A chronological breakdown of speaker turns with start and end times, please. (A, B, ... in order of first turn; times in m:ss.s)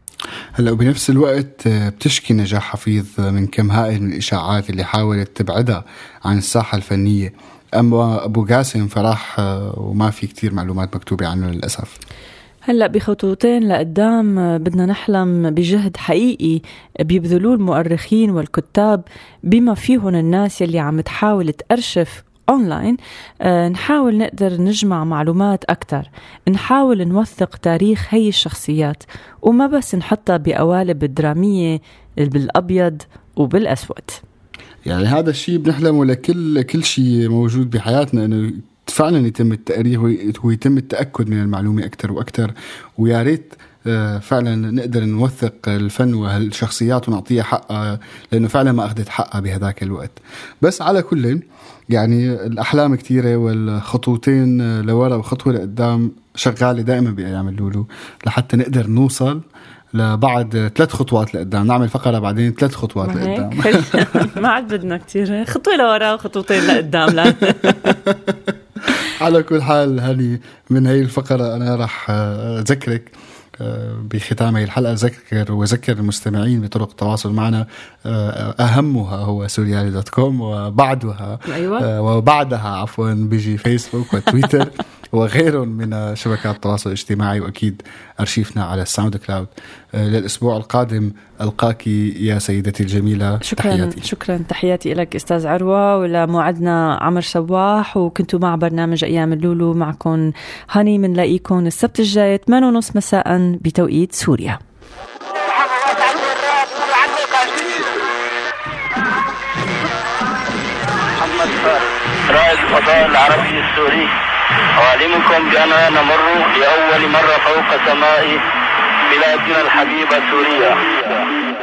0:00.6-0:12.0 A
0:12.6-0:34.2 B
0:34.8-0:59.4 A
0:59.9-1:04.3 A
1:03.0-1:07.9 B
1:07.2-1:08.5 A
1:09.2-1:34.0 A
1:21.5-1:21.9 B
1:33.4-1:44.6 B
1:45.3-1:48.1 C
1:51.2-1:54.1 C
1:54.8-1:58.4 C
1:59.1-2:01.3 C